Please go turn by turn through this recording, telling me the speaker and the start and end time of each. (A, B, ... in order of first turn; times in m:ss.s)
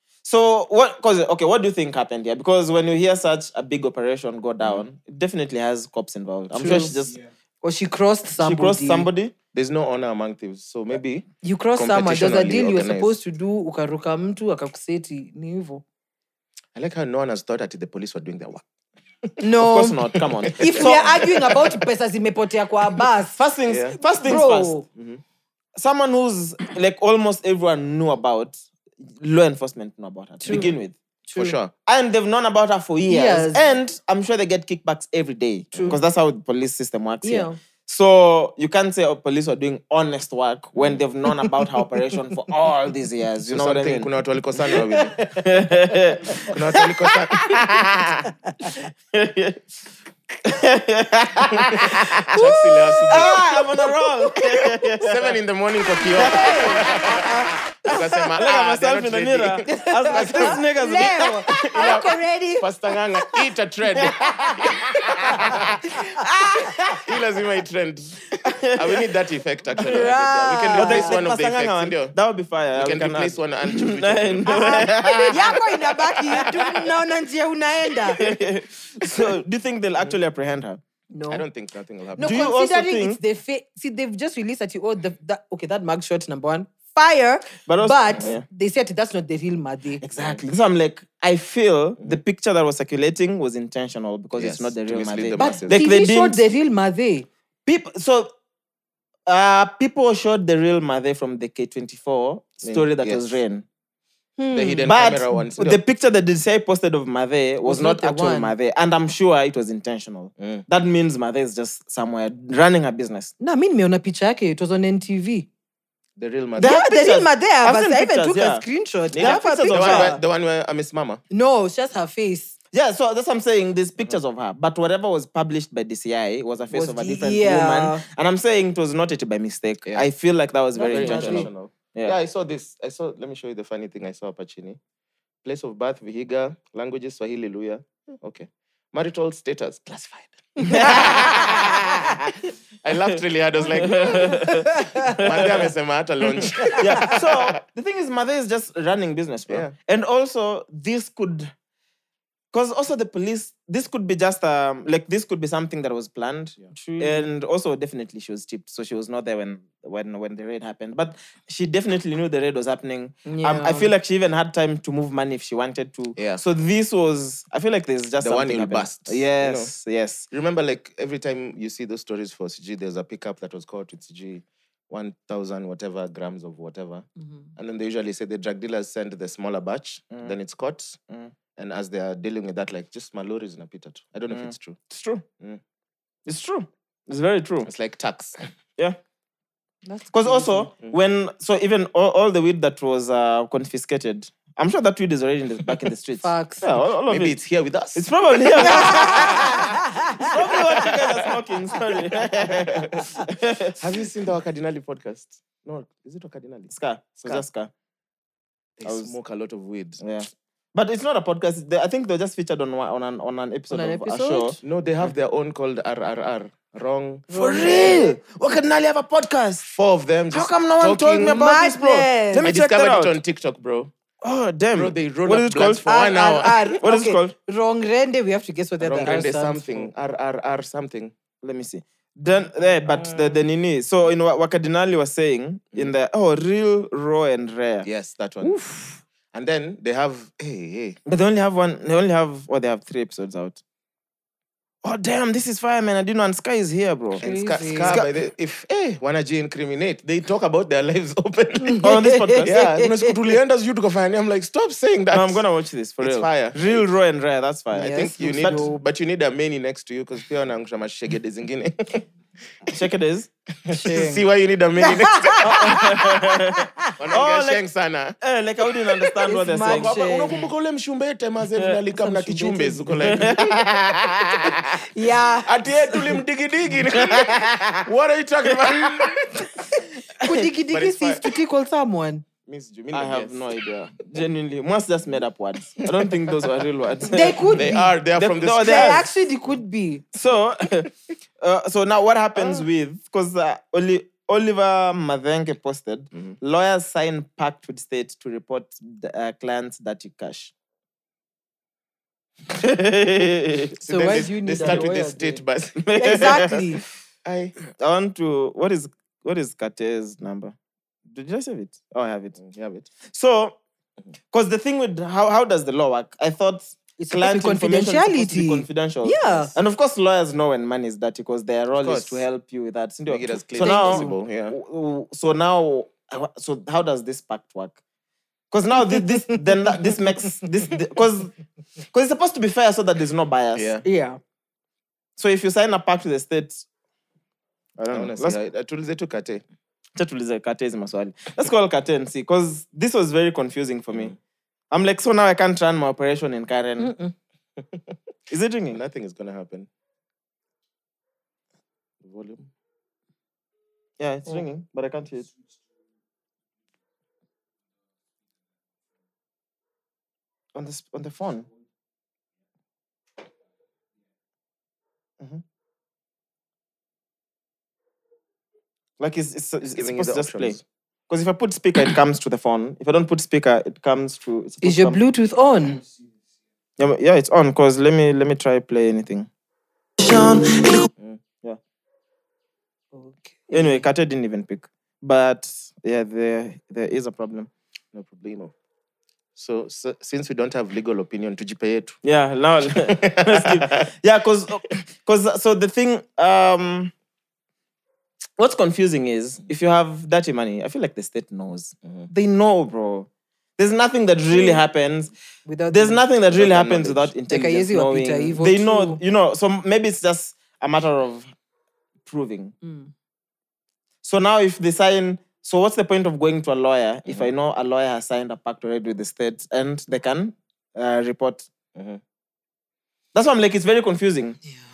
0:00.2-0:07.2 A
0:06.5-0:07.0 B
0:07.6-0:09.1 B
0:08.4-0:09.3 A
0:09.5-0:13.2 C
0:11.4-0:15.8 B
0:16.8-0:18.6 C
0:19.2-0:19.5 C
0:19.4-0:20.0 B
0:19.6-0:21.3 A
0:20.1-0:21.8 C
0:20.6-0:23.4 B
0:23.4-0:24.8 A
0:23.7-0:24.0 C
0:24.2-0:24.9 B
0:25.0-0:25.2 C
0:25.8-0:31.0 A
0:30.4-0:30.8 B
0:31.3-0:31.6 B
0:31.3-0:31.7 C
0:31.9-0:44.1 A
0:33.1-0:33.6 B
0:35.7-0:36.0 C
0:35.7-0:36.0 B
0:37.2-0:37.6 B
0:40.8-0:41.0 C
0:43.5-0:45.2 C
0:45.3-0:47.8 A
0:46.5-0:48.3 C
0:48.6-0:49.6 A
0:50.4-0:52.3 A
0:51.7-0:53.4 C
0:52.3-0:53.7 B
0:53.1-0:55.2 A
0:55.0-1:06.1 C
0:56.0-0:57.3 B
0:56.1-0:57.3 A
0:57.9-1:01.7 A
0:59.7-1:03.4 B
1:04.1-1:05.6 B
1:06.2-1:06.9 B
1:06.9-1:12.2 C
1:08.4-1:09.0 A
1:09.8-1:11.2 B
1:10.7-1:15.6 A
1:12.8-1:15.6 C
1:14.5-1:18.2 B
1:16.3-1:16.7 C
1:16.3-1:16.6 A
1:18.1-1:20.8 A
1:21.1-1:21.4 B
1:21.3-1:22.5 C
1:22.2-1:30.0 B
1:22.2-1:23.2 A
1:27.7-1:28.4 A
1:30.0-1:36.4 A
1:34.4-1:35.8 C
1:35.4-1:37.3 B
1:37.7-1:38.3 A
1:39.3-1:43.6 A
1:42.6-1:43.4 C
1:44.4-1:44.9 B
1:44.5-1:45.8 C
1:44.9-1:53.3 A
1:47.6-1:48.5 B
1:50.4-1:50.6 C
1:53.4-1:55.5 B
1:56.2-1:56.8 C
1:56.6-2:00.2 A
1:56.6-2:00.2 B
1:59.2-2:01.2 C
2:01.3-2:02.6 B
2:02.7-2:12.2 A
2:06.7-2:08.0 B
2:10.8-2:11.5 B
2:10.8-2:14.8 C
2:15.4-2:22.2 C
2:20.7-2:21.5 A
2:22.8-2:24.4 C
2:23.8-2:25.6 A
2:24.2-2:25.2 B
2:25.0-2:27.6 C
2:26.6-2:27.0 B
2:26.7-2:31.5 A
2:29.5-2:29.7 C
2:32.5-2:50.3 A
2:36.7-2:37.3 B
2:43.3-2:43.9 B
2:46.2-2:46.4 C
2:48.2-2:49.7 C
2:50.3-3:01.0 C
3:01.6-3:04.8 C
3:04.3-3:05.2 A
3:06.3-3:07.7 A
3:07.6-3:08.4 C
3:09.8-3:10.7 B
3:10.1-3:17.4 A
3:16.2-3:16.6 B
3:17.1-3:21.1 C
3:18.0-3:23.8 A
3:18.6-3:20.4 B
3:22.4-3:23.1 C
3:23.8-3:27.4 C
3:26.7-3:27.7 A
3:28.8-3:30.0 C
3:28.8-3:29.1 A
3:30.0-3:34.6 A
3:33.7-3:34.6 B
3:34.6-3:38.0 C
3:37.3-3:38.2 B
3:37.3-3:39.7 A
3:39.6-3:41.4 C
3:40.3-3:43.2 A
3:41.2-3:42.5 B
3:42.4-3:43.9 C
3:44.2-3:45.9 A
3:44.8-3:46.8 C
3:45.9-3:49.9 B
3:46.8-3:47.4 A
3:48.8-3:51.1 C
3:51.4-3:57.9 A
3:53.0-3:53.3 C
3:57.8-3:58.6 C
3:58.4-3:59.0 A
3:59.3-4:01.0 C
4:01.1-4:03.6 A
4:04.8-4:07.2 A
4:07.2-4:11.9 C
4:07.2-4:08.0 B
4:11.7-4:13.1 B
4:11.8-4:12.6 A
4:12.4-4:15.4 C
4:15.1-4:18.7 A
4:16.0-4:16.9 C
4:17.7-4:22.0 C
4:17.8-4:18.8 B
4:22.7-4:23.3 A
4:23.6-4:25.8 C
4:23.7-4:24.2 B
4:24.8-4:26.7 B
4:25.4-4:27.6 A
4:27.0-4:28.2 C
4:28.2-4:30.0 A
4:29.2-4:30.4 B
4:29.6-4:34.8 C
4:32.0-4:33.3 B
4:33.0-4:34.0 A
4:34.9-4:35.5 B
4:35.4-4:39.5 C
4:36.9-4:37.8 A
4:38.6-4:39.0 A
4:40.2-4:42.2 B
4:40.2-4:40.5 A
4:40.7-4:41.3 C
4:42.5-4:43.5 C
4:42.9-4:49.1 A
4:47.1-4:48.0 B
4:47.5-4:49.1 C
4:48.6-4:50.0 B
4:50.1-5:00.5 A
4:52.4-4:52.6 C
5:02.5-5:03.7 A
5:03.8-5:06.4 C
5:03.9-5:05.4 B
5:05.8-5:06.7 A
5:05.9-5:06.8 B
5:07.2-5:07.6 C
5:07.8-5:10.6 A
5:11.1-5:12.4 A
5:12.4-5:12.9 C
5:13.1-5:13.6 A
5:14.3-5:27.8 A
5:17.0-5:19.5 B
5:21.7-5:22.2 C
5:23.1-5:24.6 C
5:23.6-5:24.2 B
5:28.5-5:31.3 A
5:28.8-5:29.4 B
5:31.9-5:33.7 A
5:33.6-5:33.8 C
5:33.8-5:34.2 B
5:35.2-5:36.6 A
5:37.8-5:38.4 A
5:37.9-5:39.4 C
5:40.0-5:44.1 A
5:44.7-5:46.9 A
5:46.8-5:47.1 B
5:48.3-5:48.8 A
5:48.7-5:49.7 C
5:52.0-5:52.5 C
5:54.0-5:55.3 A
6:00.5-6:01.5 A
6:09.0-6:10.6 A
6:09.7-6:10.6 C
6:11.1-6:15.0 A
6:14.6-6:15.8 B
6:16.8-6:19.3 A
6:20.0-6:20.9 A
6:22.9-6:23.8 B
6:23.5-6:27.5 A
6:27.9-6:28.5 C
6:29.4-6:32.0 C
6:32.0-6:36.9 A
6:32.8-6:33.8 C
6:38.4-6:45.1 A
6:44.3-6:44.6 B
6:45.5-6:46.0 B
6:45.7-6:51.3 A
6:46.3-6:47.1 C
6:47.3-6:49.0 B
6:52.1-6:52.6 A
6:52.6-6:52.9 B
6:54.0-7:01.5 A
7:01.8-7:02.0 C
7:03.1-7:04.4 A